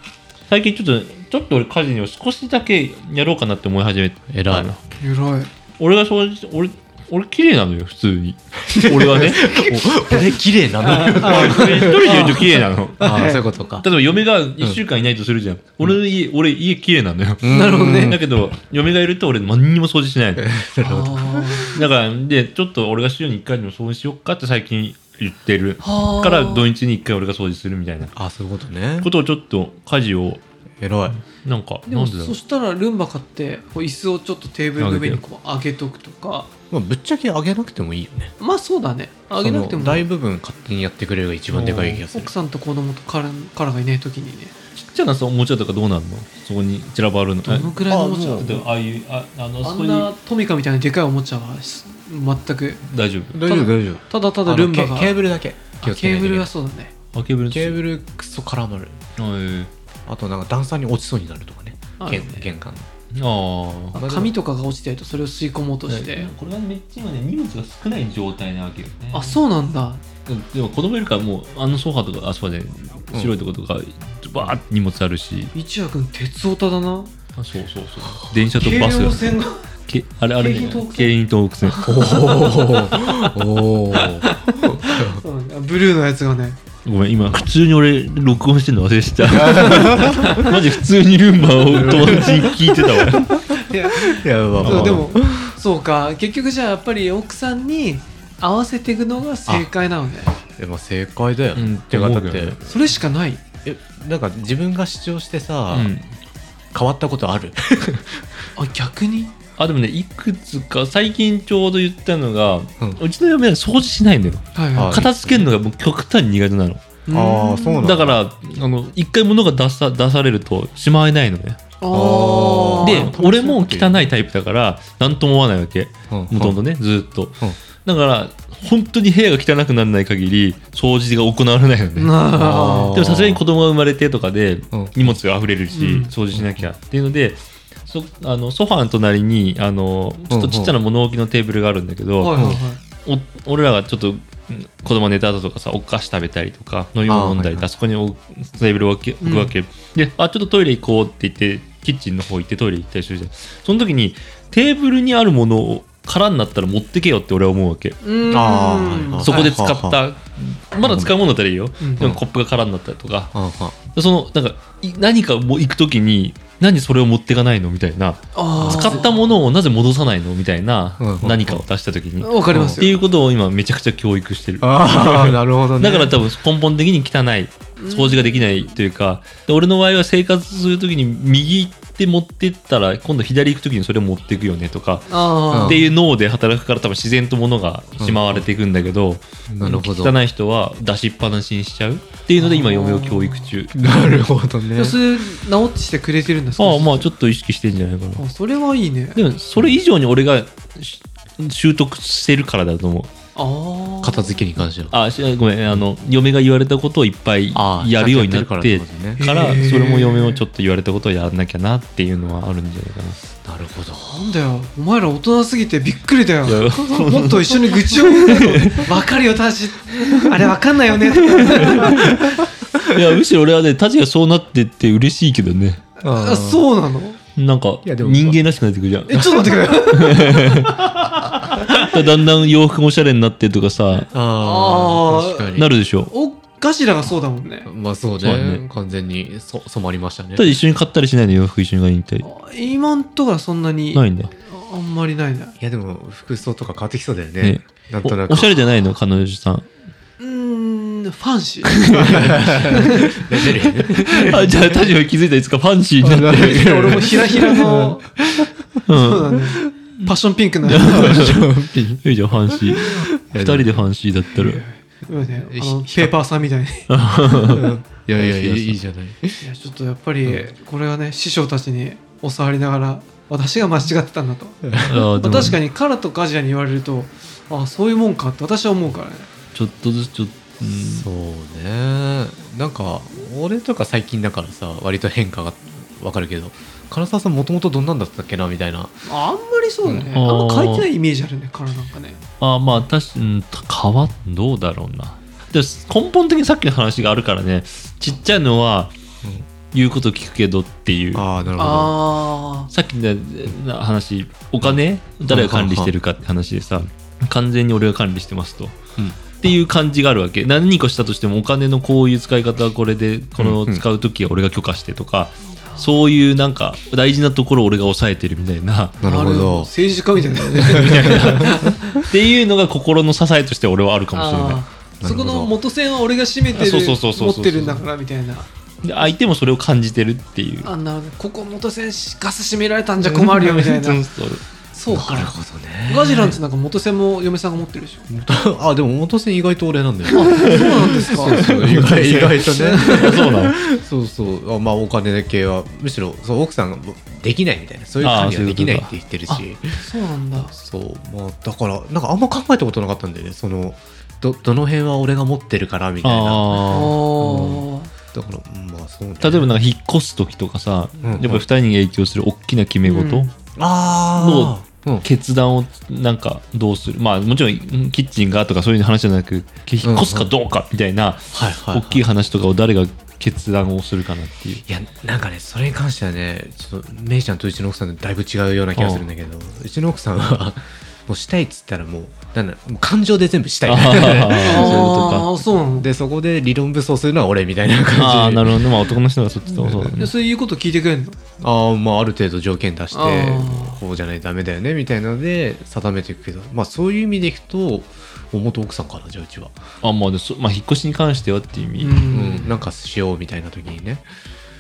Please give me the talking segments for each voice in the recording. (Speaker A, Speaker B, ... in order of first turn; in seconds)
Speaker A: 0.5-4.8, 5.8-9.6, 10.9-13.1, 13.8-20.5, 21.7-28.1, 29.0-30.4, 31.2-32.4, 34.8-35.2, 41.5-42.0, 44.8-47.7, 48.3-50.1, 52.9-53.4, 57.1-57.8, 59.2-59.7, 63.1-64.0, 65.9-69.4, 70.3-75.5, 77.4-79.4, 79.9-81.9, 86.8-93.3, 94.6-95.1, 101.5-102.6, 105.7-106.1, 109.6-116.9, 117.8-121.6, 122.8-132.1, 132.9-142.5, 143.1-158.0, 159.2-163.3, 163.9-193.7, 196.6-198.2, 199.2-203.1, 204.9-213.2, 216.5-218.9, 220.1-220.3, 221.1-225.8, 227.4-234.1, 235.6-236.1, 238.2-238.6, 240.4-242.3, 243.9-244.3, 247.4-249.7, 251.7-253.1, 253.6-257.2, 258.9-259.4, 260.6-261.5, 262.0-264.6, 266.9-268.8, 274.8-275.6, 279.6-281.1, 290.1-290.9, 292.4-298.9, 299.7-301.2, 302.7-308.8, 309.4-319.0, 320.5-324.6, 326.5-327.8, 328.8-330.7, 333.4-334.5, 340.3-343.6, 348.0-348.9, 356.0-357.0, 359.2-363.3, 364.1-374.6, 378.8-379.1, 383.7-385.3, 387.9-390.1, 399.8-402.0
Speaker B: 4.3-4.7, 8.7-12.3, 13.0-13.9, 17.4-18.2, 20.4-21.7, 28.2-29.1, 30.8-31.2, 36.7-38.3, 39.4-42.3, 47.9-48.6, 53.3-56.5, 57.5-59.0, 60.1-62.9, 64.0-64.3, 81.8-85.2, 89.3-90.4, 91.7-95.5, 100.6-102.6, 103.7-105.9, 106.7-108.5, 114.8-115.5, 117.1-118.2, 121.9-124.1, 126.1-126.6, 132.3-133.4, 134.7-135.2, 136.3-136.7, 140.3-140.7, 147.1-147.7, 158.2-160.0, 160.8-161.1, 163.3-163.8, 168.6-169.1, 171.0-171.6, 172.5-172.8, 174.6-176.1, 185.5-185.8, 188.0-188.4, 189.5-190.2, 193.7-195.0, 204.0-204.9, 207.5-209.2, 213.4-214.2, 221.8-222.2, 226.0-226.7, 227.8-228.4, 234.1-235.7, 237.7-240.5, 245.6-248.6, 251.9-254.8, 256.0-258.5, 260.7-263.9, 265.5-266.1, 267.3-269.4, 274.6-275.6, 280.7-288.9, 301.1-301.9, 305.3-305.9, 313.4-313.8, 319.0-319.7, 320.4-322.0, 325.0-325.5, 333.0-333.5, 334.9-336.4, 338.1-349.8, 350.5-359.5, 361.0-361.4, 363.6-365.1, 369.8-370.3, 371.3-372.0, 374.7-385.1, 385.7-388.7, 389.6-389.9, 391.4-399.5, 402.1-404.1
Speaker C: 5.0-5.5, 9.4-13.5, 17.5-18.2, 20.8-21.8, 25.8-26.7, 31.9-36.5, 38.4-40.1, 42.1-44.5, 47.5-48.7, 49.6-52.8, 53.4-55.1, 55.8-56.9, 62.0-62.5, 64.0-66.3, 69.1-70.0, 75.5-77.1, 78.5-79.6, 80.4-81.1, 81.7-83.4, 83.9-86.6, 89.5-90.6, 93.5-100.3, 102.7-103.4, 108.6-109.3, 114.5-115.0, 117.1-117.8, 121.8-123.1, 132.0-132.9, 135.7-136.1, 142.2-142.8, 149.2-149.5, 158.0-159.5, 161.8-162.1, 168.3-169.3, 172.2-173.0, 177.8-178.7, 185.1-185.9, 192.4-193.5, 194.8-197.1, 198.2-199.2, 203.4-204.4, 209.2-210.4, 214.0-222.2, 226.0-227.2, 229.1-230.7, 234.4-237.7, 242.2-245.5, 250.2-252.0, 252.7-253.2, 256.2-258.1, 258.9-261.3, 264.4-266.9, 269.4-279.3, 289.1-292.2, 301.6-302.7, 319.1-322.0, 324.1-328.5, 330.6-334.0, 334.7-335.3, 335.9-338.1, 340.1-343.2, 349.8-350.5, 356.7-357.9, 362.9-363.3, 384.4-385.9, 390.0-391.2, 392.9-393.8, 401.8-402.6